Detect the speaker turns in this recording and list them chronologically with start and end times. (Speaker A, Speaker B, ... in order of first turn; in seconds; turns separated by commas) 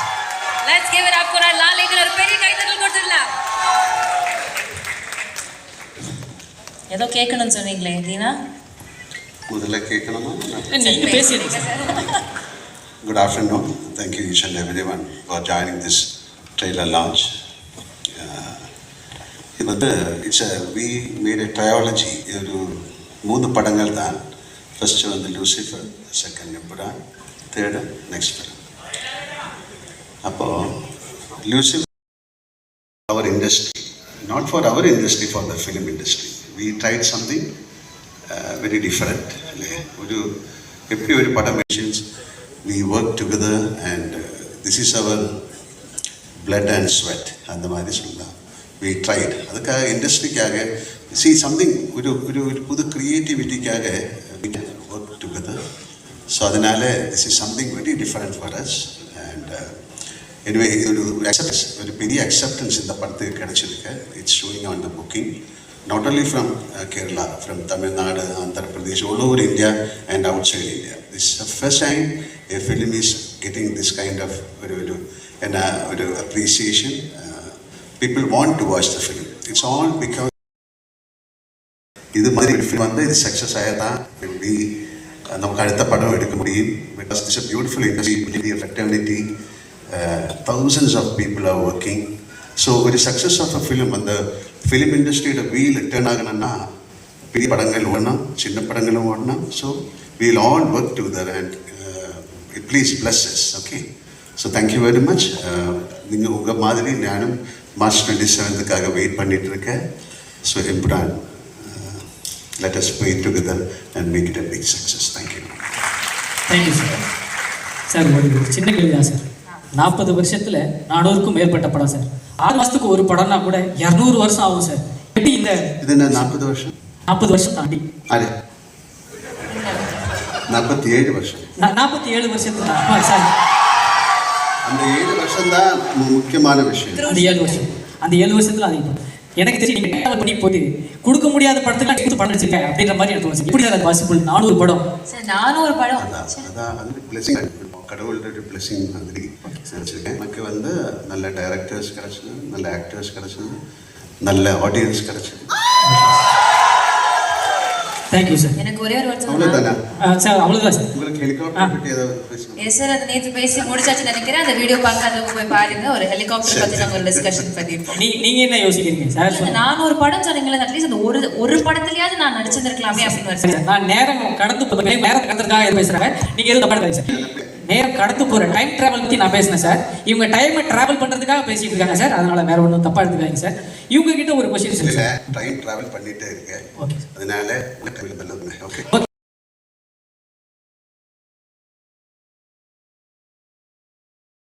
Speaker A: 0.6-3.3, Speaker A: 6.9-8.3, Speaker B: 9.5-11.0, Speaker C: 10.7-12.1, Speaker A: 10.8-12.1, Speaker B: 13.0-17.4, Speaker B: 18.1-18.7, Speaker B: 19.6-24.2, Speaker B: 24.8-27.0, Speaker B: 27.5-28.6, Speaker B: 30.2-30.9, Speaker B: 31.4-31.9, Speaker B: 33.1-37.5, Speaker B: 38.3-40.3, Speaker B: 40.9-42.0, Speaker B: 42.6-45.4, Speaker B: 46.4-55.6, Speaker B: 56.3-59.8, Speaker B: 60.5-65.3, Speaker B: 65.9-80.4, Speaker B: 82.2-89.2, Speaker B: 89.9-92.1, Speaker B: 92.6-96.7, Speaker B: 97.3-103.8, Speaker B: 104.4-109.8, Speaker B: 110.5-112.1, Speaker B: 112.6-115.6, Speaker C: 116.5-117.0, Speaker A: 116.5-117.0, Speaker C: 117.9-119.2, Speaker C: 119.8-125.7, Speaker B: 125.8-126.7, Speaker C: 127.1-127.8, Speaker A: 129.5-130.2, Speaker B: 130.5-131.5, Speaker C: 131.6-133.3, Speaker B: 134.6-137.1, Speaker A: 136.9-137.7, Speaker C: 137.1-144.8, Speaker A: 145.1-146.5, Speaker B: 146.0-153.6, Speaker C: 149.4-149.7, Speaker B: 154.2-155.5, Speaker C: 155.8-156.2, Speaker C: 158.1-158.6, Speaker A: 158.6-159.6, Speaker B: 159.3-159.8, Speaker C: 160.0-160.9, Speaker B: 160.9-162.8, Speaker A: 162.6-168.0, Speaker B: 166.4-167.7, Speaker C: 167.9-169.6, Speaker A: 169.3-173.6, Speaker C: 172.9-185.1, Speaker B: 177.1-177.5, Speaker B: 184.7-188.9, Speaker C: 186.8-187.0